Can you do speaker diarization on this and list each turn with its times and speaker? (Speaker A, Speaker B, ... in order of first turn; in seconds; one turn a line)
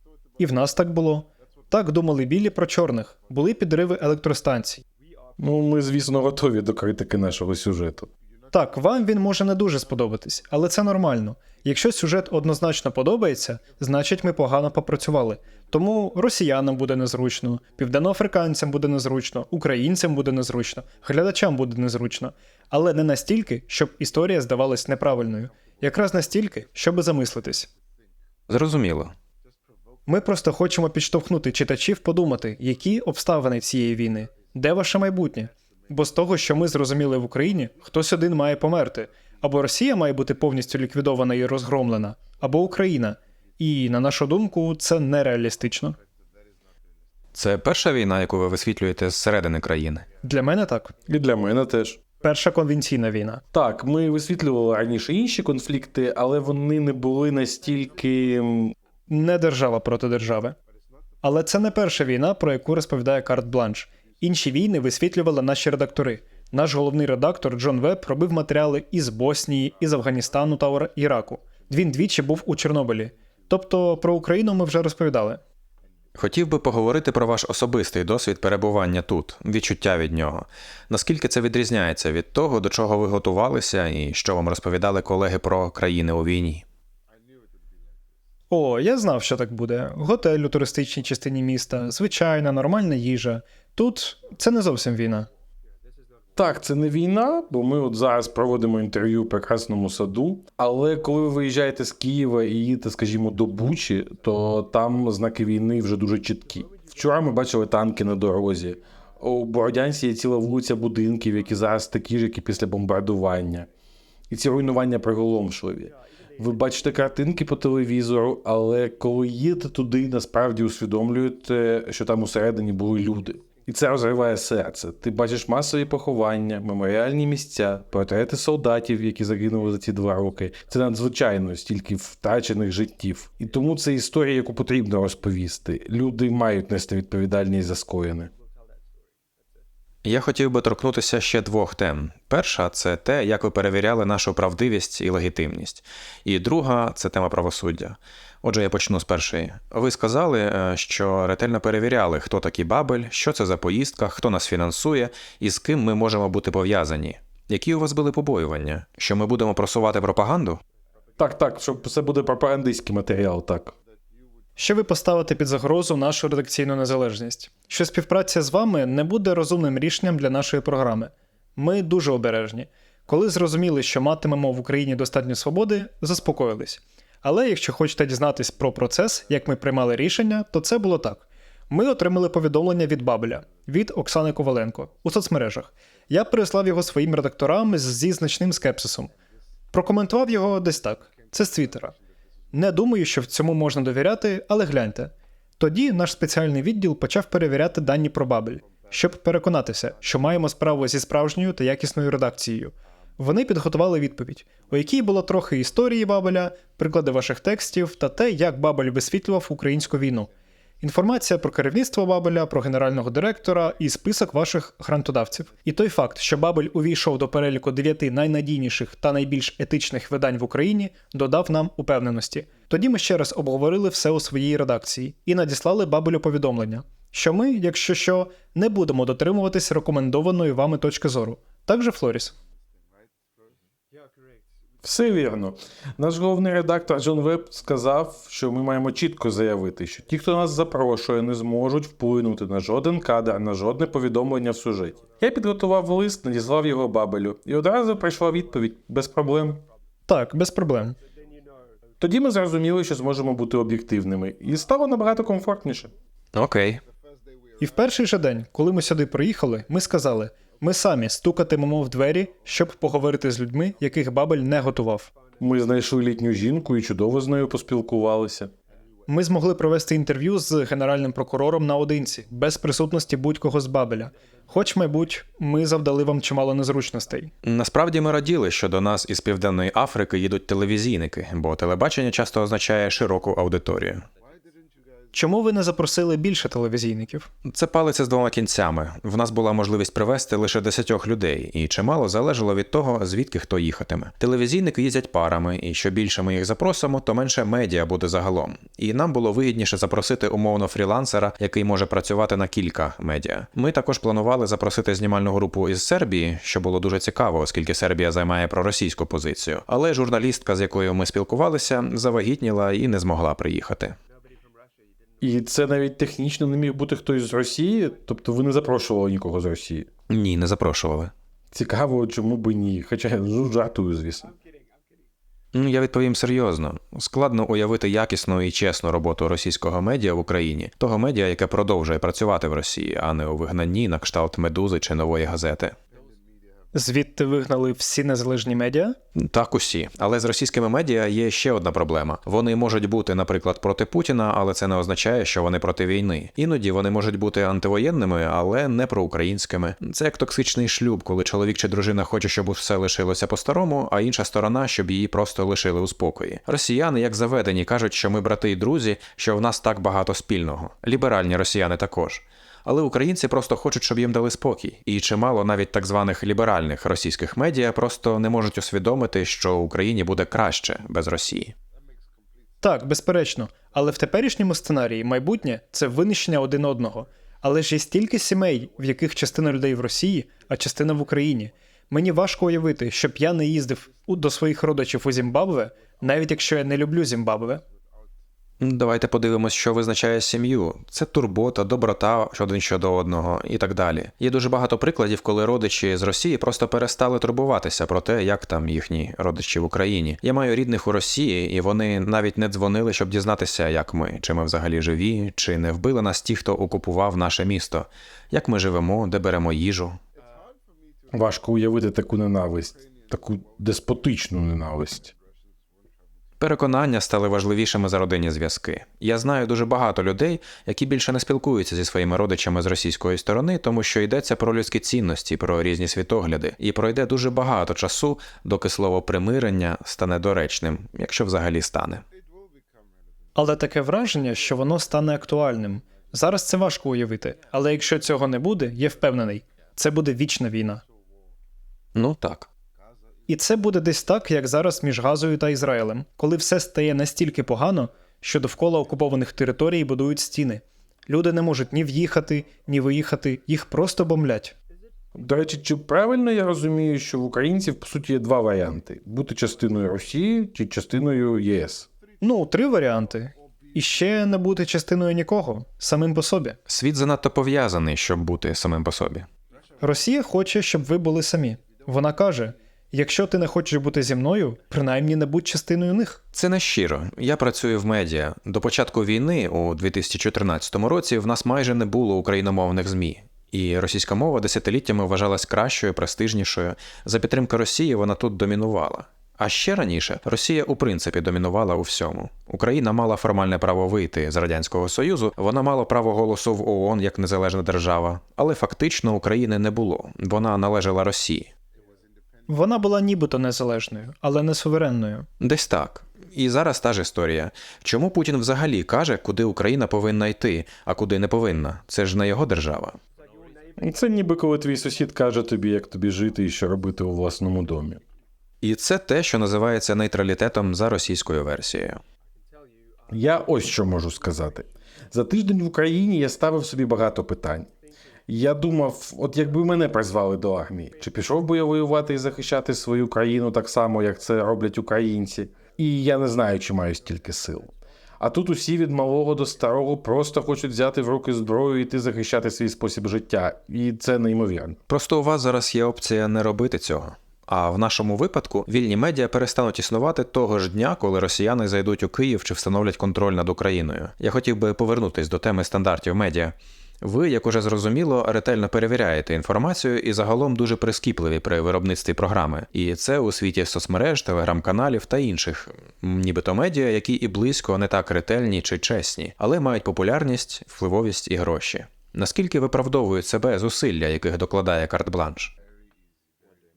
Speaker A: 0.4-4.8
Speaker B: 5.4-8.1
Speaker A: 8.5-27.7
Speaker C: 28.5-29.1
Speaker A: 30.1-46.0
Speaker C: 47.3-50.1
Speaker A: 50.2-50.9
Speaker B: 51.1-52.0
Speaker A: 52.2-53.4
Speaker B: 53.5-58.8
Speaker A: 59.1-60.6
Speaker A: 61.2-75.4
Speaker C: 76.2-86.6
Speaker A: 88.5-95.3
Speaker B: 96.4-113.7
Speaker B: 114.3-138.3
Speaker C: 140.0-160.6
Speaker B: 161.2-163.7
Speaker A: 164.6-189.1
Speaker A: 189.7-192.0
Speaker A: 192.5-232.3
Speaker B: 234.8-249.7
Speaker A: 250.1-251.0
Speaker B: 252.0-255.9
Speaker C: 256.3-256.8
Speaker A: 257.6-265.1
Speaker B: 265.4-268.5
Speaker A: 269.1-277.3
Speaker C: 277.4-284.1
Speaker A: 285.1-287.3
Speaker C: 287.4-314.0
Speaker B: 315.2-319.9
Speaker C: 320.1-321.1
Speaker B: 321.5-324.4
Speaker C: 325.5-335.8
Speaker A: 336.7-339.0
Speaker C: 339.1-371.5
Speaker A: 372.6-387.6
Speaker C: 388.6-410.0
Speaker B: 411.1-415.1
Speaker C: 416.4-432.0
Speaker A: 433.4-440.8
Speaker C: 441.9-442.5
Speaker A: 443.3-454.5
Speaker B: 455.1-461.9
Speaker A: 462.2-466.6
Speaker C: 466.7-469.3
Speaker A: 469.8-476.2
Speaker C: 476.3-501.5
Speaker A: 502.5-505.3
Speaker C: 505.4-513.0
Speaker B: 513.8-518.0
Speaker C: 518.6-522.0
Speaker B: 523.1-527.7
Speaker B: 528.3-544.8
Speaker C: 544.9-575.5